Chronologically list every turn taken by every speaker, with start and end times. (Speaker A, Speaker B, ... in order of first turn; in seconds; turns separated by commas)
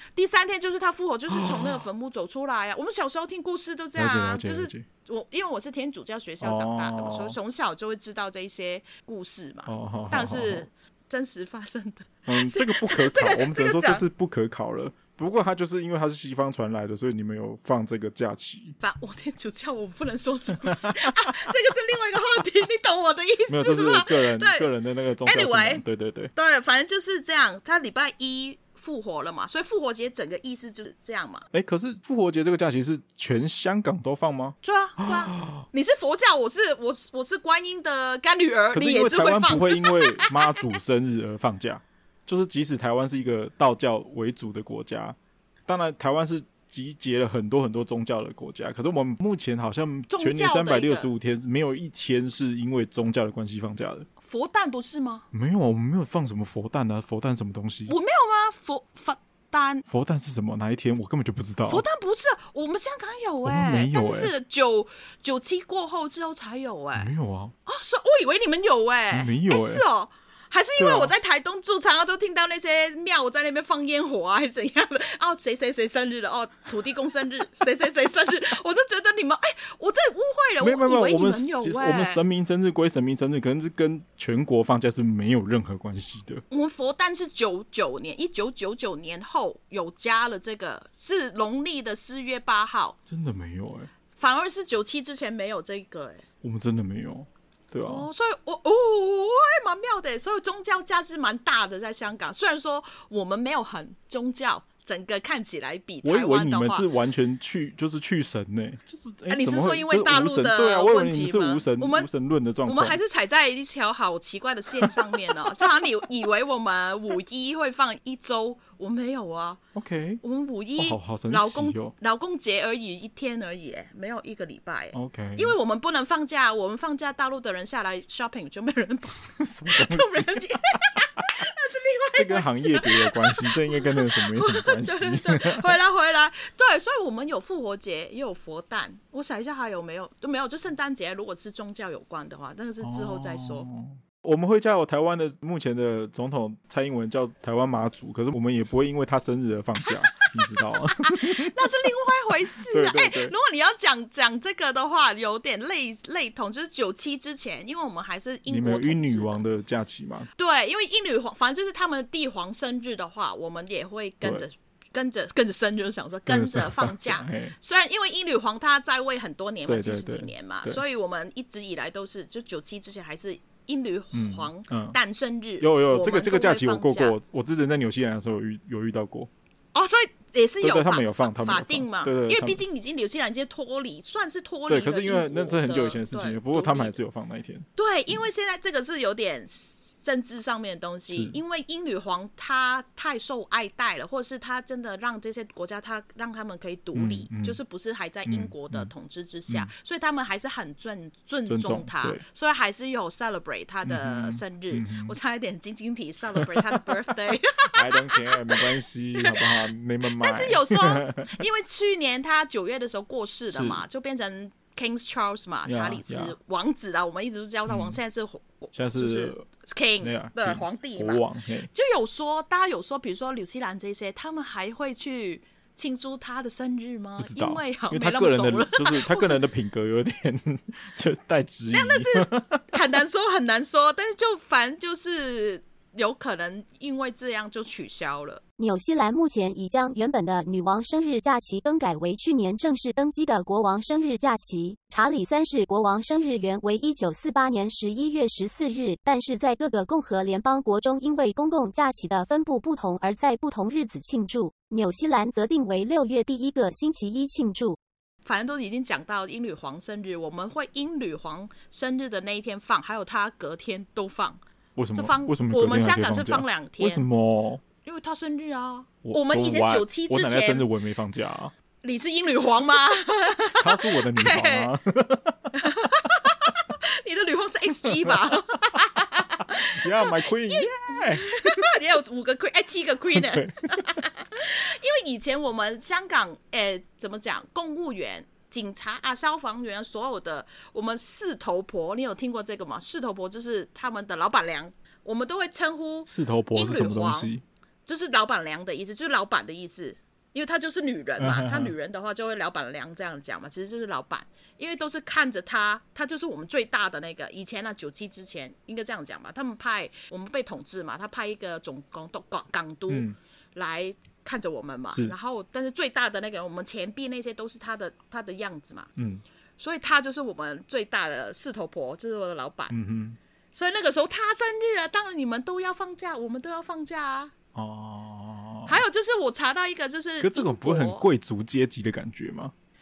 Speaker A: 0.1-14.0, Speaker B: 1.3-1.8, Speaker B: 4.0-4.9, Speaker B: 6.4-7.4, Speaker B: 9.7-10.7, Speaker B: 12.3-18.8, Speaker A: 18.8-24.7, Speaker B: 23.5-26.3, Speaker A: 25.2-25.8, Speaker A: 26.4-31.5, Speaker B: 31.5-35.6, Speaker A: 34.6-40.7, Speaker B: 38.7-45.2, Speaker B: 45.7-54.1, Speaker A: 50.1-51.1, Speaker A: 54.2-55.3, Speaker B: 55.3-57.9, Speaker A: 57.9-59.8, Speaker B: 59.9-61.9, Speaker A: 61.7-67.1, Speaker B: 63.5-64.3, Speaker B: 67.0-67.5, Speaker A: 67.7-82.2, Speaker B: 69.1-69.8, Speaker B: 70.8-71.1, Speaker B: 80.6-86.4, Speaker A: 86.5-93.0, Speaker B: 93.1-93.9, Speaker A: 94.2-96.2, Speaker B: 96.4-98.1, Speaker A: 97.8-106.9, Speaker B: 106.0-113.0, Speaker A: 109.3-112.1, Speaker A: 112.7-119.6, Speaker B: 119.8-120.2, Speaker A: 120.2-143.7, Speaker B: 120.8-121.9, Speaker B: 124.9-125.5, Speaker B: 129.4-130.4, Speaker B: 132.2-135.7, Speaker B: 142.8-151.5, Speaker A: 149.9-150.5, Speaker A: 151.0-159.4, Speaker B: 152.7-153.3, Speaker B: 158.5-160.3, Speaker A: 160.4-177.2, Speaker B: 166.3-167.6, Speaker B: 169.7-170.8, Speaker B: 174.1-175.0, Speaker B: 175.6-179.3, Speaker A: 179.7-187.0, Speaker B: 180.6-182.6, Speaker B: 184.7-187.7, Speaker A: 187.8-229.4, Speaker B: 191.1-191.4, Speaker B: 196.9-197.6, Speaker B: 198.3-198.9, Speaker B: 201.5-202.2, Speaker B: 203.8-205.2, Speaker B: 206.3-206.8, Speaker B: 207.7-211.4, Speaker B: 213.5-213.8, Speaker B: 215.7-216.3, Speaker B: 217.7-218.0, Speaker B: 218.7-219.5, Speaker B: 220.0-221.7, Speaker B: 227.2-232.7, Speaker A: 231.7-238.4, Speaker C: 238.6-257.8, Speaker A: 258.2-264.4, Speaker B: 264.8-267.6, Speaker A: 264.9-267.1, Speaker A: 267.8-270.7, Speaker B: 269.0-271.5, Speaker A: 271.8-274.7, Speaker B: 273.6-275.5, Speaker A: 275.5-297.3, Speaker B: 279.5-281.7, Speaker B: 283.1-283.9, Speaker B: 296.1-297.4, Speaker A: 297.9-318.9, Speaker B: 301.2-301.7, Speaker B: 312.9-313.2, Speaker B: 319.0-319.2, Speaker A: 319.6-322.7, Speaker B: 322.7-323.2, Speaker A: 323.5-327.3, Speaker B: 327.6-328.8, Speaker A: 328.7-331.1, Speaker B: 330.2-332.5